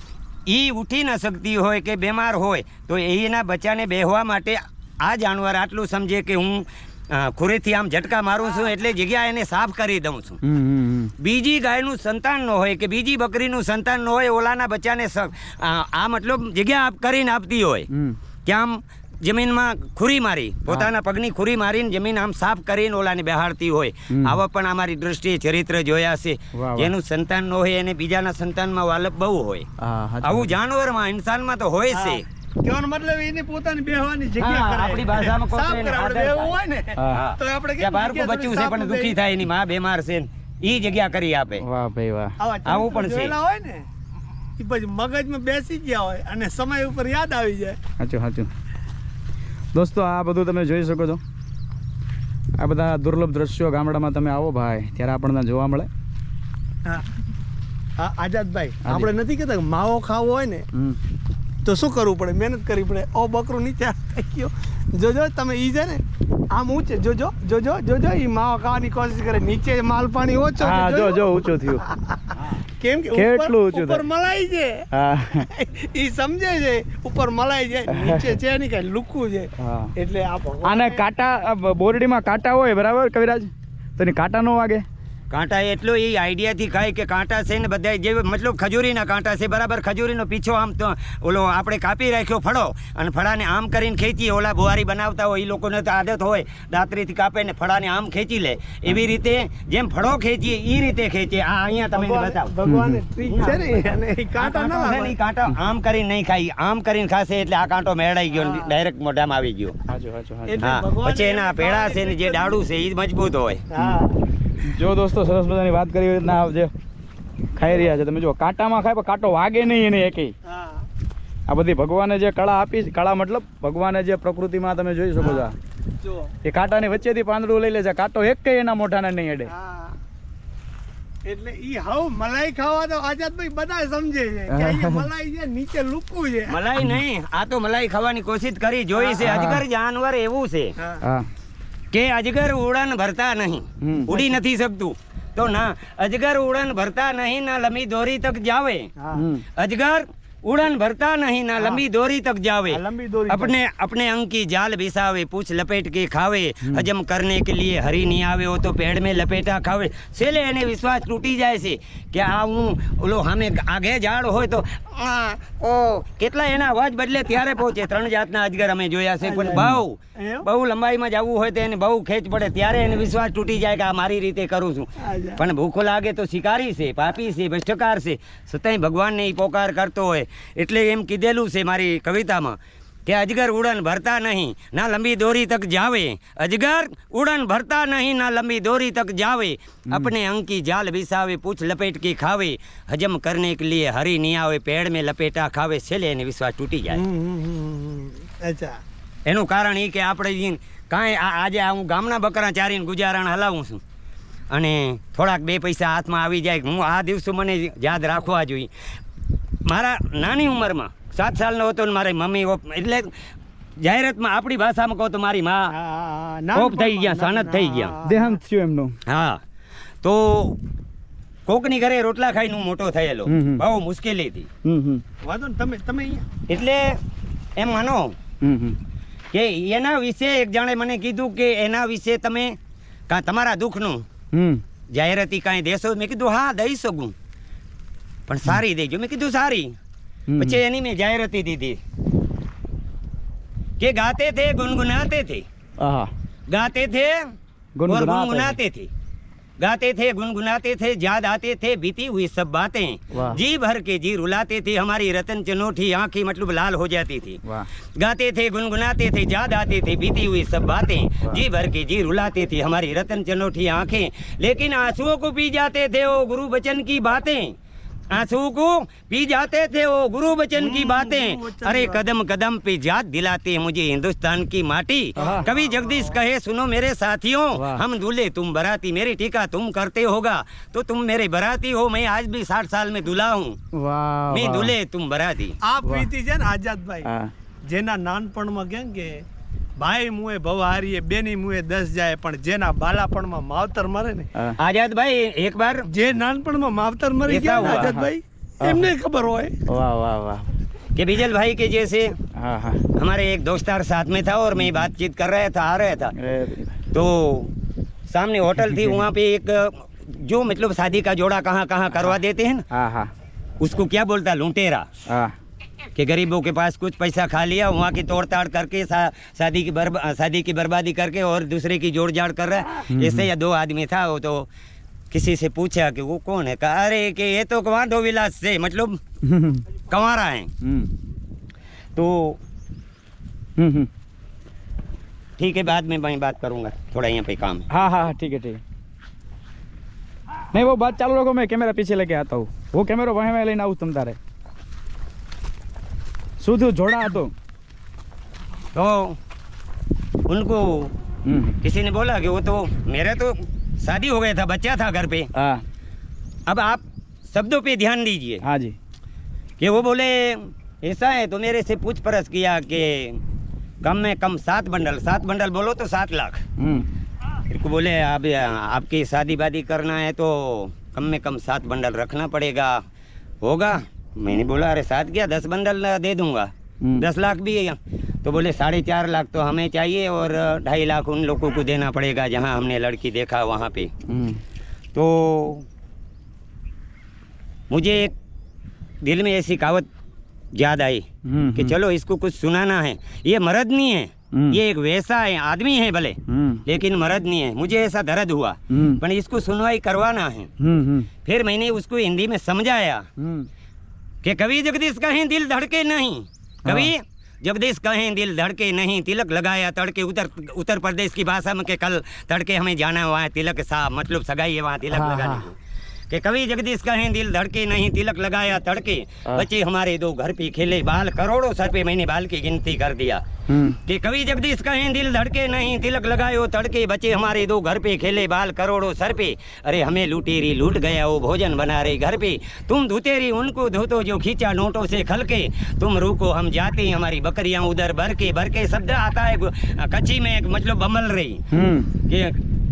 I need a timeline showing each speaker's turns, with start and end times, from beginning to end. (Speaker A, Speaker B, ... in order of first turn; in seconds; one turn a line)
Speaker A: 0.5-10.4
Speaker B: 10.4-11.1
Speaker A: 11.2-17.9
Speaker B: 17.9-18.2
Speaker A: 18.4-29.7
Speaker B: 24.1-24.4
Speaker B: 26.5-26.9
Speaker B: 29.8-30.5
Speaker A: 30.2-32.2
Speaker C: 31.9-39.2
Speaker A: 34.4-36.6
Speaker B: 37.0-37.2
Speaker A: 37.1-41.6
Speaker B: 41.6-42.4
Speaker C: 42.4-43.9
Speaker A: 42.6-43.4
Speaker C: 44.6-47.8
Speaker B: 48.0-48.5
Speaker B: 49.7-51.2
Speaker B: 52.6-55.9
Speaker C: 58.0-60.6
Speaker B: 58.8-59.1
Speaker C: 61.6-72.2
Speaker B: 70.6-71.9
Speaker C: 72.8-74.8
Speaker B: 73.1-74.0
Speaker B: 74.9-75.5
Speaker C: 75.5-81.0
Speaker B: 77.9-78.2
Speaker B: 79.6-79.9
Speaker B: 80.6-84.8
Speaker A: 85.3-102.5
Speaker C: 101.9-105.2
Speaker B: 102.7-103.0
Speaker A: 103.3-103.7
Speaker A: 104.4-109.8
Speaker C: 108.3-108.7
Speaker B: 109.9-110.7
Speaker C: 110.5-112.6
Speaker A: 110.6-113.6
Speaker C: 113.7-114.2
Speaker B: 114.6-116.7
Speaker B: 117.5-120.3
Speaker C: 120.5-120.8
Speaker B: 121.5-125.5
Speaker C: 125.2-125.5
Speaker C: 126.0-126.3
Speaker B: 126.4-129.5
Speaker C: 129.5-130.0
Speaker C: 131.2-136.6
Speaker B: 134.5-135.1
Speaker A: 136.5-140.8
Speaker C: 138.9-139.3
Speaker B: 139.2-139.6
Speaker B: 141.0-141.3
Speaker A: 141.9-148.9
Speaker B: 143.8-144.1
Speaker C: 149.0-149.2
Speaker B: 149.2-149.4
Speaker A: 149.6-197.0
Speaker C: 152.7-153.6
Speaker C: 169.2-169.7
Speaker B: 169.6-169.8
Speaker C: 170.2-170.5
Speaker C: 175.0-175.4
Speaker C: 196.9-198.8
Speaker A: 199.3-203.8
Speaker A: 204.5-208.7
Speaker A: 209.7-213.1
Speaker A: 213.8-215.7
Speaker C: 215.7-218.4
Speaker A: 216.5-217.9
Speaker B: 218.1-218.9
Speaker A: 219.1-219.4
Speaker A: 220.0-220.6
Speaker A: 221.5-224.5
Speaker B: 223.3-223.6
Speaker B: 224.7-225.0
Speaker C: 225.2-226.2
Speaker A: 226.5-227.0
Speaker A: 227.6-228.2
Speaker B: 228.4-228.8
Speaker A: 229.3-232.6
Speaker A: 233.1-234.0
Speaker B: 234.3-234.6
Speaker A: 234.9-237.1
Speaker A: 238.3-239.8
Speaker B: 240.3-240.6
Speaker A: 240.4-241.8
Speaker A: 243.8-245.4
Speaker B: 245.8-246.1
Speaker A: 246.5-247.3
Speaker B: 247.8-248.6
Speaker A: 247.9-248.9
Speaker A: 249.6-257.4
Speaker B: 253.1-253.4
Speaker B: 257.4-257.7
Speaker A: 258.0-267.5
Speaker A: 268.1-283.6
Speaker C: 270.6-272.0
Speaker B: 275.2-275.5
Speaker C: 275.2-276.1
Speaker B: 277.5-277.8
Speaker B: 283.7-284.7
Speaker A: 284.3-285.6
Speaker C: 285.6-287.1
Speaker B: 287.0-287.3
Speaker C: 287.7-289.2
Speaker C: 289.8-294.3
Speaker A: 294.6-295.9
Speaker C: 295.9-299.6
Speaker A: 297.3-298.0
Speaker B: 297.6-298.1
Speaker B: 299.7-300.5
Speaker A: 300.9-302.1
Speaker B: 302.4-302.8
Speaker A: 302.9-306.1
Speaker B: 306.1-306.8
Speaker A: 306.9-307.5
Speaker A: 308.1-312.6
Speaker B: 308.6-309.0
Speaker B: 312.7-313.1
Speaker A: 313.6-314.9
Speaker B: 315.1-315.3
Speaker A: 315.9-324.5
Speaker B: 322.9-323.3
Speaker A: 325.1-329.0
Speaker B: 329.2-329.6
Speaker A: 329.9-330.5
Speaker B: 330.6-330.9
Speaker A: 332.0-332.4
Speaker B: 333.6-333.9
Speaker A: 335.4-337.7
Speaker B: 337.7-338.6
Speaker B: 340.5-344.2
Speaker B: 346.4-347.3
Speaker A: 348.8-349.2
Speaker A: 350.3-350.9
Speaker B: 351.3-351.6
Speaker A: 351.6-355.3
Speaker B: 355.3-355.6
Speaker A: 356.5-358.4
Speaker B: 358.4-358.8
Speaker A: 359.6-363.2
Speaker A: 363.8-366.4
Speaker B: 366.6-366.9
Speaker A: 367.5-372.8
Speaker A: 373.4-383.9
Speaker B: 376.8-377.1
Speaker B: 384.1-384.4
Speaker A: 384.9-385.7
Speaker A: 387.7-388.1
Speaker A: 389.0-389.9
Speaker A: 390.6-400.5
Speaker B: 391.2-391.8
Speaker B: 394.3-394.6
Speaker B: 396.3-396.6
Speaker B: 398.7-399.0
Speaker B: 400.6-401.1
Speaker A: 401.2-403.1
Speaker B: 403.2-403.5
Speaker A: 404.2-415.6
Speaker B: 406.7-406.9
Speaker B: 414.9-415.5
Speaker A: 416.1-423.2
Speaker B: 423.5-423.8
Speaker A: 423.8-441.4
Speaker B: 441.5-441.9
Speaker A: 442.0-442.4